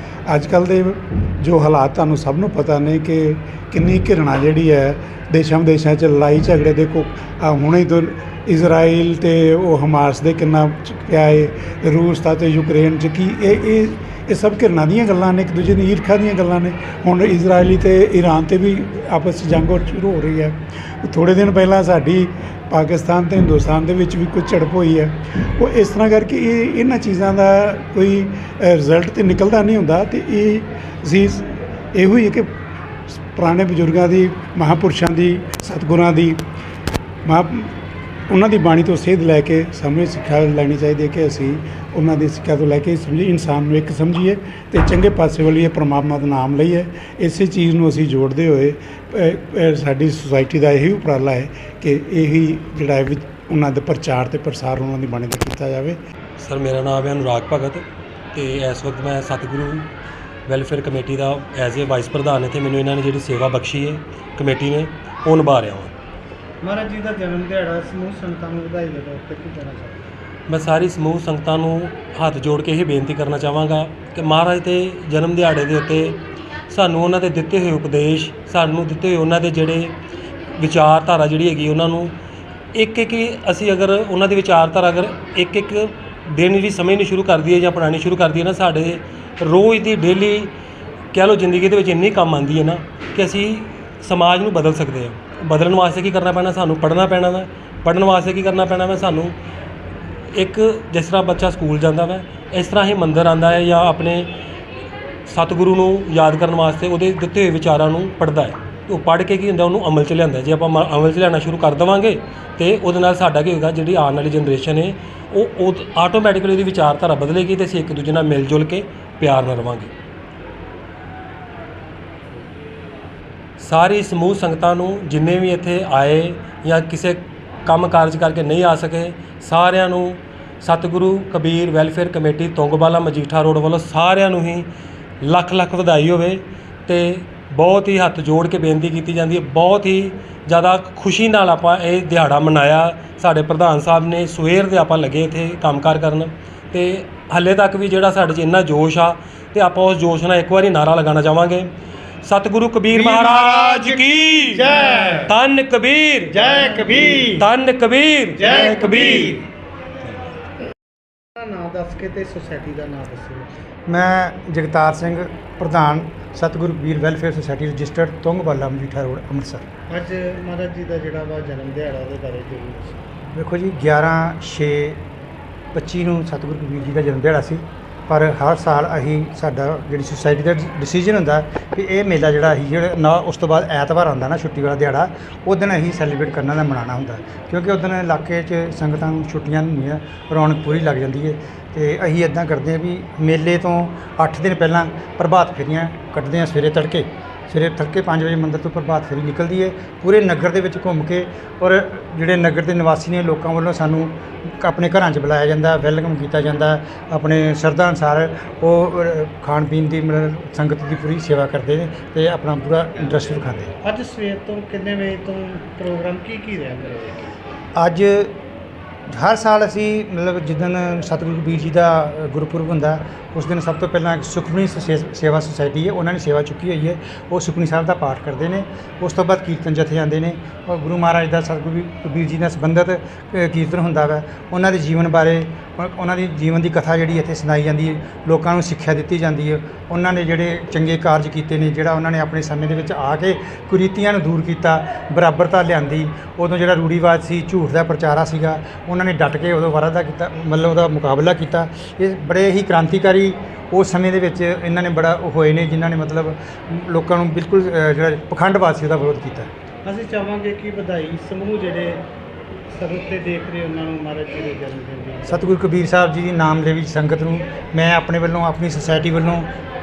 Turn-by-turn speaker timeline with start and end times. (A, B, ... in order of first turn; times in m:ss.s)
0:00.3-0:32.5 A
0:33.1-0:36.4 A
0:37.2-0:37.7 A
0:38.3-0:56.0 A
0:56.4-0:59.9 B
1:00.5-1:05.9 B
1:06.6-1:10.0 C
1:10.5-1:20.0 B
1:20.6-1:22.1 B
1:22.7-1:30.5 B
1:31.1-1:39.3 B
1:40.3-1:44.3 B
1:45.3-1:59.9 B
2:03.6-2:14.7 B
2:15.2-2:31.7 B
2:32.2-2:36.4 B
2:32.9-2:35.3 D
2:36.3-2:37.3 C
2:36.3-2:37.4 D
2:37.3-2:39.4 B
2:38.4-2:39.3 C
2:38.6-2:39.4 D
2:41.4-2:43.4 C
2:43.9-2:49.6 D
2:49.9-2:53.0 C
2:53.3-2:55.0 D
2:55.7-3:33.7 D
3:33.8-3:37.3 C
3:37.8-3:38.4 D
3:39.1-4:19.5 D
4:19.8-4:22.1 C
4:22.7-4:25.4 C
4:25.3-4:29.5 D